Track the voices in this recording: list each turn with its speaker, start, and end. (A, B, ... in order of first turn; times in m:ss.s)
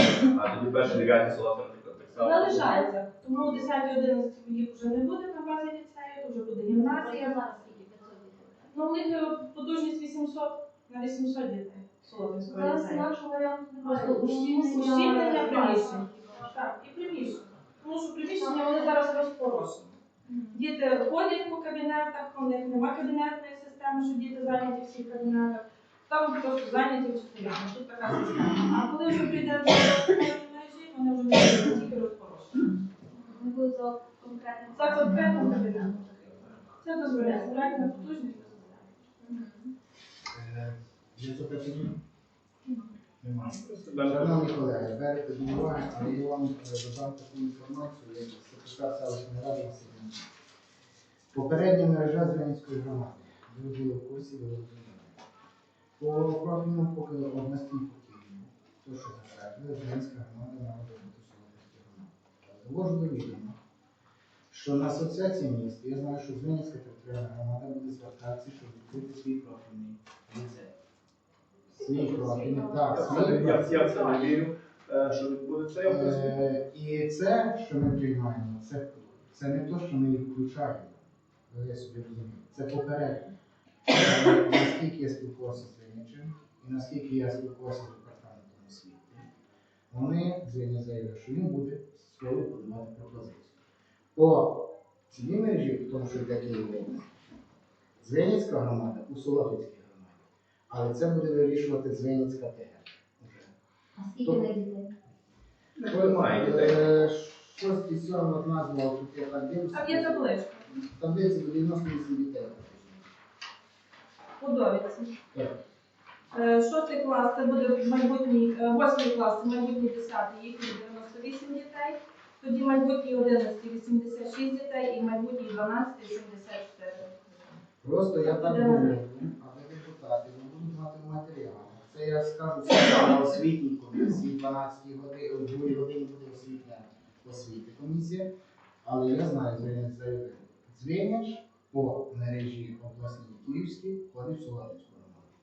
0:00.2-0:02.7 A
0:02.2-0:07.4 B
0:06.7-0:08.7 C
0:08.7-0:13.1 B
0:12.5-0:16.5 C
0:13.8-0:20.0 B
0:18.4-0:18.9 C
0:20.3-0:20.6 C
0:20.5-0:32.7 B
0:33.1-0:36.0 C
0:34.7-0:39.0 B
0:37.1-0:37.8 C
0:39.2-0:39.7 C
0:40.3-0:42.0 D
0:43.2-0:44.4 A
0:43.2-0:50.2 D
0:51.3-0:55.2 D
0:56.0-1:03.6 D
1:04.5-1:10.7 D
1:11.8-1:13.9 D
1:11.8-1:13.3 C
1:12.9-1:16.3 A
1:15.8-1:21.0 D
1:21.5-1:23.3 D
1:23.9-1:29.3 D
1:29.9-1:33.5 D
1:34.1-1:37.0 D
1:38.0-1:43.5 D
1:44.0-1:44.9 C
1:44.2-1:44.6 D
1:45.8-1:46.8 A
1:45.9-1:53.1 D
1:49.7-1:50.6 B
1:54.4-1:55.1 B
1:56.3-2:07.6 B
2:07.8-2:18.3 D
2:08.2-2:09.0 B
2:18.8-2:25.3 D